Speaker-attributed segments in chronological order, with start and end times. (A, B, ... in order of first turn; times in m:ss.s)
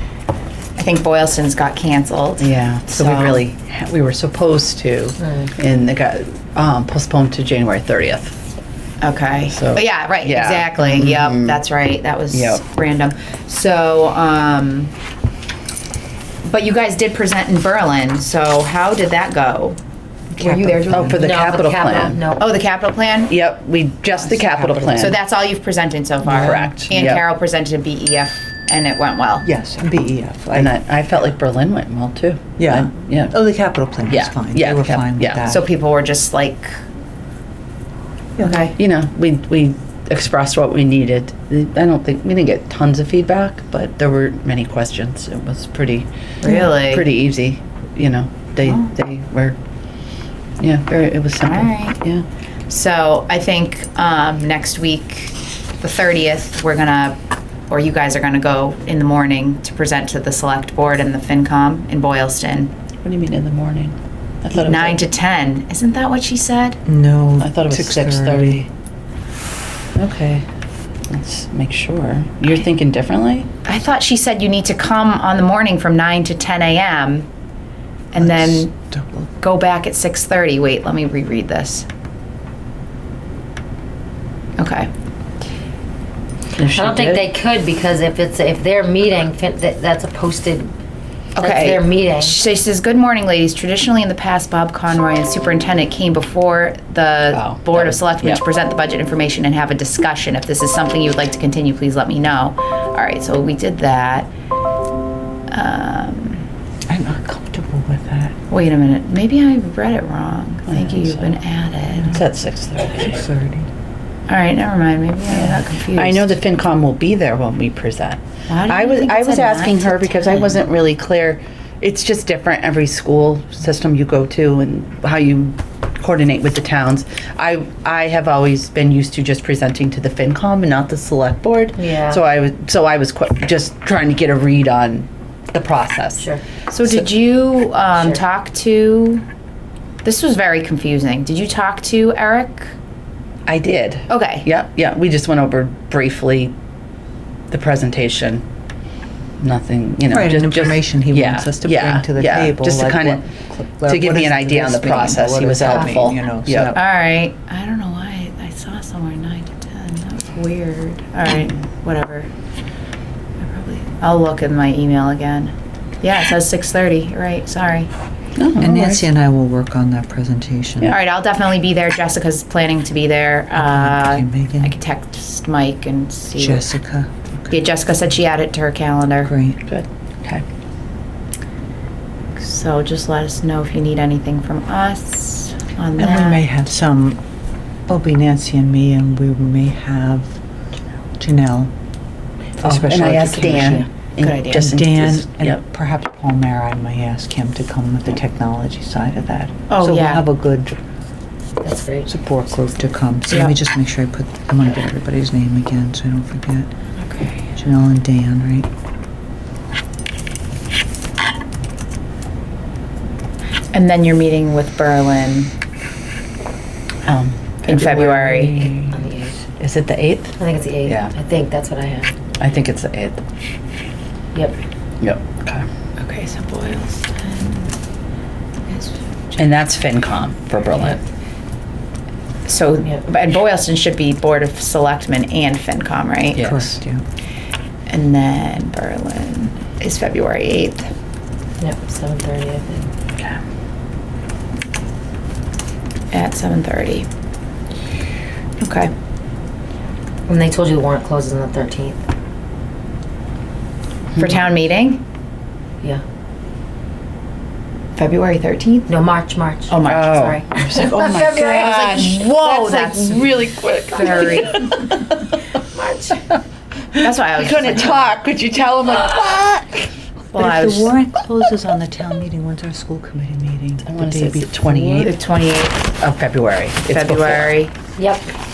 0:00.8-0:03.4 A
0:02.4-0:08.4 B
0:05.2-0:05.5 C
0:09.0-0:14.9 A
0:09.5-0:11.6 B
0:12.3-0:12.6 B
0:16.4-0:19.8 A
0:20.3-0:21.2 D
0:20.4-0:21.2 A
0:20.9-0:22.2 B
0:21.2-0:22.4 C
0:22.4-0:23.3 A
0:23.3-0:25.2 B
0:24.6-0:24.9 D
0:24.9-0:29.5 A
0:26.2-0:26.9 D
0:26.3-0:27.2 B
0:29.4-0:30.7 D
0:30.5-0:33.3 B
0:32.6-0:35.6 D
0:34.1-0:35.5 B
0:35.4-0:36.8 A
0:38.4-0:38.7 D
0:38.4-0:38.7 A
0:38.7-0:49.6 B
0:46.4-0:47.1 A
0:48.6-0:48.9 A
0:50.6-0:52.2 B
0:51.4-0:52.0 A
0:52.7-0:57.2 A
0:57.7-1:02.7 A
1:03.0-1:05.0 B
1:04.5-1:06.8 A
1:06.8-1:08.6 D
1:07.4-1:08.7 B
1:10.0-1:10.4 B
1:11.1-1:13.5 B
1:13.6-1:17.3 A
1:18.1-1:18.7 A
1:18.2-1:19.3 D
1:19.4-1:21.9 A
1:24.6-1:24.9 A
1:26.6-1:27.2 B
1:26.6-1:30.7 C
1:31.4-1:44.3 A
1:31.4-1:32.4 C
1:37.3-1:38.4 B
1:45.5-1:46.4 A
1:46.9-1:48.3 D
1:48.5-1:52.2 A
1:50.7-1:51.3 B
1:52.1-1:53.2 B
1:52.9-1:53.7 D
1:54.3-1:56.4 A
1:55.3-2:16.2 B
1:58.5-2:00.7 A
2:11.8-2:12.2 C
2:16.2-2:16.4 C
2:16.7-2:19.2 A
2:20.0-2:22.8 A
2:23.5-2:26.6 B
2:24.1-2:24.5 A
2:27.5-2:28.4 B
2:29.4-2:33.2 B
2:30.1-2:36.8 D
2:33.9-2:36.8 B
2:35.7-2:36.0 C
2:36.7-2:42.3 A
2:43.4-2:47.9 A
2:48.4-2:49.1 B
2:48.6-2:50.9 D
2:50.8-2:56.7 A
2:53.6-2:54.8 D
2:56.4-2:57.5 D
2:57.5-2:59.3 A
2:59.2-2:59.6 D
2:59.7-3:00.4 B
3:02.4-3:06.4 A
3:06.0-3:07.2 D
3:07.9-3:10.4 D
3:11.2-3:11.7 D
3:12.6-3:13.9 D
3:12.6-3:15.6 B
3:14.2-3:14.6 A
3:14.5-3:20.8 D
3:19.7-3:20.2 A
3:21.6-3:22.1 C
3:22.1-3:26.7 D
3:23.3-3:23.6 A
3:27.0-3:27.6 A
3:27.6-3:28.7 D
3:33.7-3:35.5 A
3:37.0-3:39.0 B
3:37.6-3:38.8 A
3:38.9-3:39.4 C
3:39.6-3:41.1 B
3:40.4-3:42.2 C
3:42.4-3:43.2 B
3:45.0-3:45.6 B
3:46.0-3:47.7 A
3:48.7-3:49.4 A
3:49.4-3:51.0 B
3:52.4-3:56.5 A
3:56.3-3:56.8 B
3:56.4-3:57.0 D
3:57.9-4:00.9 A
4:01.6-4:02.9 C
4:06.1-4:07.1 A
4:08.6-4:08.9 A
4:10.3-4:12.0 C
4:14.2-4:15.0 A
4:18.0-4:19.0 A
4:18.9-4:22.2 C
4:19.7-4:20.4 A
4:19.8-4:25.2 B
4:21.6-4:23.4 A
4:23.9-4:24.8 A
4:25.8-4:26.2 C
4:27.0-4:28.0 A
4:27.4-4:29.9 B
4:30.3-4:30.9 A
4:30.3-4:35.1 D
4:33.8-4:35.1 B
4:35.0-4:35.8 A
4:36.0-4:37.6 B
4:36.9-4:37.7 A
4:38.0-4:38.3 C